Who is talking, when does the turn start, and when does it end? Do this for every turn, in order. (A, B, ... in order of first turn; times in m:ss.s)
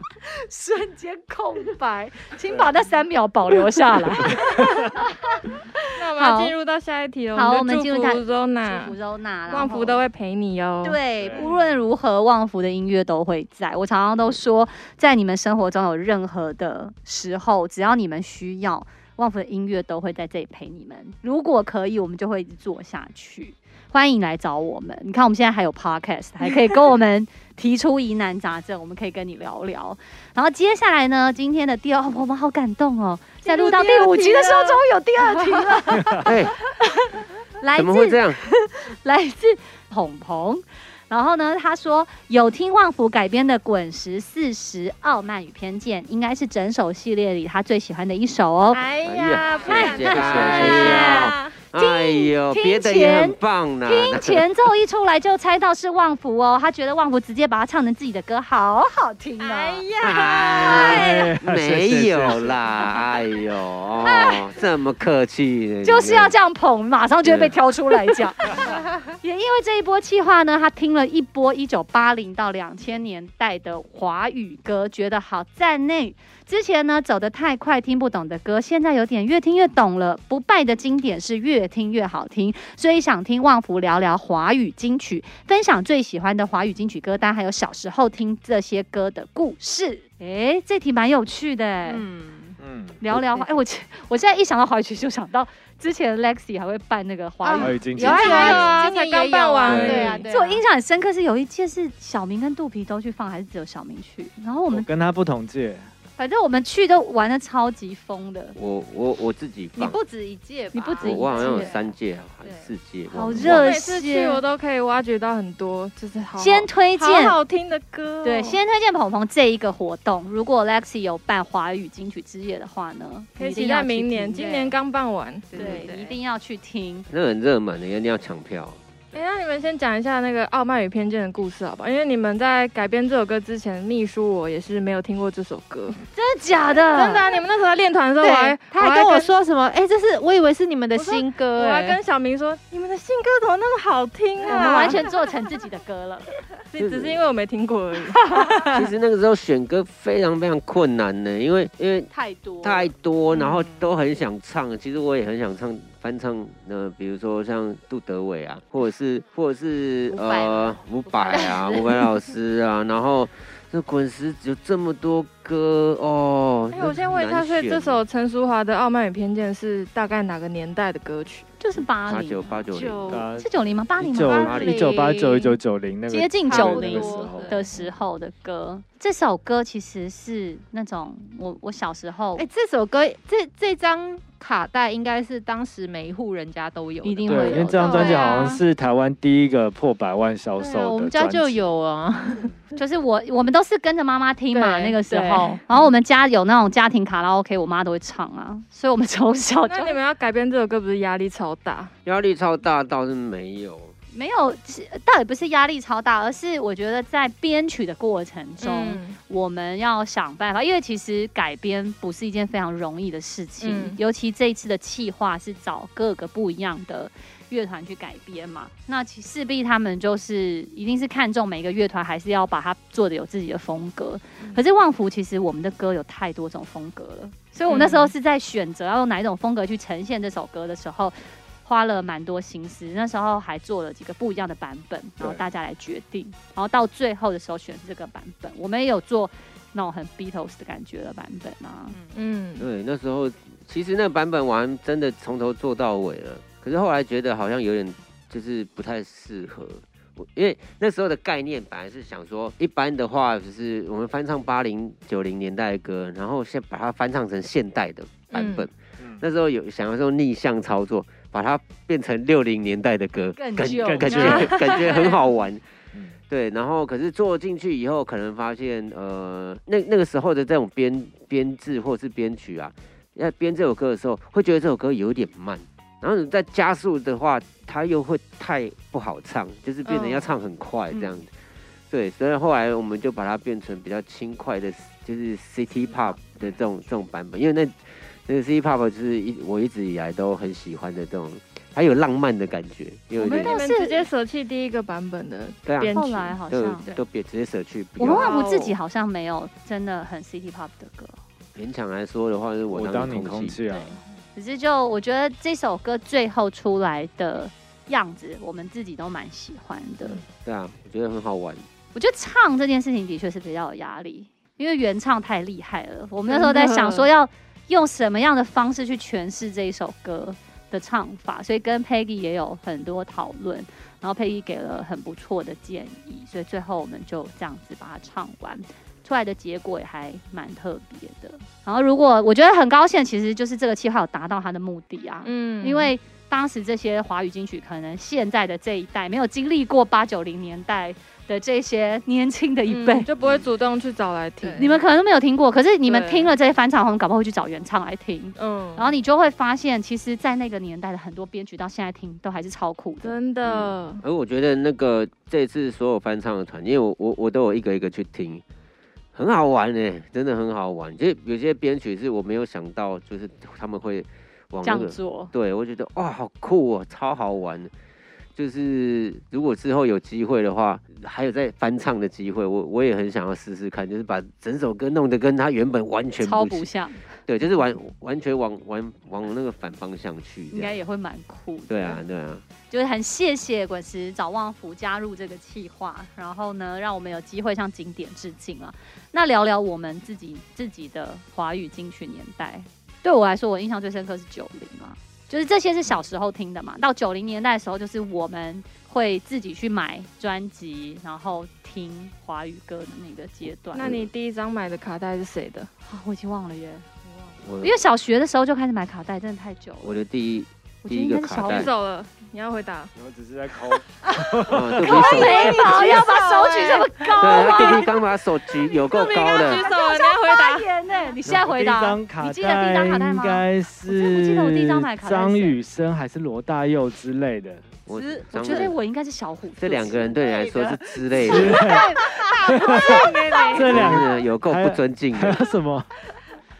0:00.2-0:06.5 A
0:04.3-0:04.9 B
0:06.0-0:09.0 C
0:07.4-0:10.0 A
0:09.5-0:11.0 C
0:10.8-0:48.9 A
0:11.2-0:11.5 B
0:33.4-0:34.8 C
0:36.0-0:36.3 B
0:36.2-0:36.6 D
0:37.8-0:38.4 D
0:48.7-0:51.5 C
0:49.0-0:54.5 D
0:49.6-1:01.3 A
0:59.4-1:01.0 C
1:00.0-1:06.4 D
1:01.0-1:02.6 B
1:04.1-1:04.5 A
1:05.8-1:32.0 A
1:07.2-1:07.6 D
1:31.8-1:32.6 E
1:32.6-1:33.0 B
1:33.0-1:38.7 A
1:33.3-1:33.6 E
1:37.4-1:40.6 E
1:37.6-1:38.7 B
1:38.0-1:40.3 C
1:39.7-1:40.2 B
1:40.2-1:44.9 A
1:44.7-1:45.9 B
1:46.2-1:48.6 A
1:48.6-1:50.0 D
1:49.8-1:51.9 E
1:50.7-1:51.8 A
1:51.0-1:53.8 D
1:52.4-1:52.7 E
1:53.1-1:54.4 A
1:53.5-1:58.6 C
1:56.4-1:57.4 A
1:58.2-2:04.8 A
2:03.4-2:05.9 C
2:05.5-2:06.2 E
2:05.5-2:07.1 A
2:07.1-2:08.8 D
2:09.1-2:16.0 C
2:16.1-2:17.2 A
2:16.9-2:19.3 C
2:18.2-2:22.0 E
2:21.0-2:25.1 C
2:24.4-2:26.3 A
2:24.6-2:25.0 E
2:26.7-2:28.8 C
2:26.8-2:27.2 D
2:28.7-2:32.1 D
2:32.1-2:32.7 A
2:32.6-2:48.0 D
2:40.1-2:41.7 E
2:41.3-2:41.7 A
2:46.7-2:51.5 C
2:51.6-2:52.7 A
2:52.0-2:53.3 D
2:52.7-2:53.3 E
2:53.1-2:57.5 B
2:53.4-2:55.6 A
2:54.4-2:55.2 E
2:54.4-2:54.9 D
2:56.1-3:02.5 A
2:56.5-2:57.9 E
3:02.4-3:08.6 E
3:07.0-3:08.6 A
3:07.3-3:11.6 B
3:07.8-3:08.6 C
3:10.6-3:12.5 E
3:12.8-3:20.0 A
3:14.5-3:15.6 C
3:19.7-3:21.9 C
3:22.0-3:23.9 D
3:24.1-4:02.0 A
3:28.6-3:29.2 C
3:33.6-3:34.0 C
3:47.7-3:48.1 C
4:02.1-4:02.7 C
4:02.6-4:25.6 D
4:18.3-4:18.7 C
4:23.4-4:24.9 A
4:23.8-4:24.5 B
4:24.2-4:25.2 C
4:26.3-4:41.3 D
4:39.8-4:40.3 C
4:41.9-4:53.6 D
4:53.2-4:54.1 A
4:53.3-4:56.4 C
4:55.7-4:56.0 D
4:55.8-4:57.0 A
4:56.5-4:58.3 D
4:58.0-5:01.2 A
4:58.1-4:58.8 C
5:01.6-5:03.6 D
5:02.7-5:04.0 B
5:03.7-5:10.2 A
5:10.3-5:11.7 D
5:11.9-5:43.1 A
5:16.3-5:17.0 C
5:35.2-5:35.9 C
5:42.7-5:44.8 C
5:43.2-5:43.5 D
5:44.6-5:53.2 A
5:45.9-5:46.3 C
5:48.4-5:48.9 C
5:53.0-5:54.0 C
5:53.4-5:58.4 D
5:59.1-6:07.7 D
6:04.6-6:05.3 A
6:08.4-6:16.7 D
6:16.2-6:17.1 A
6:17.3-6:20.8 D
6:20.5-6:22.0 A
6:21.7-6:22.4 D
6:22.7-6:43.9 A
6:43.7-6:45.7 C
6:43.8-6:44.1 D
6:45.9-6:46.8 A
6:47.4-6:47.8 D
6:47.6-6:50.0 A
6:49.8-6:51.7 D
6:50.8-6:51.7 A
6:51.4-6:52.9 C
6:53.0-6:55.3 B
6:54.5-6:55.7 D
6:54.8-6:57.9 A
6:55.5-6:57.7 E
6:55.6-6:56.6 C
6:57.2-6:59.6 D
6:57.3-6:57.8 C
6:58.9-7:00.7 C
6:59.1-7:05.6 A
7:01.3-7:07.9 B
7:07.9-7:08.8 D
7:07.9-7:10.6 A
7:09.6-7:11.6 D
7:10.2-7:13.7 E
7:11.2-7:15.9 B
7:12.5-7:13.8 C
7:13.7-7:15.4 D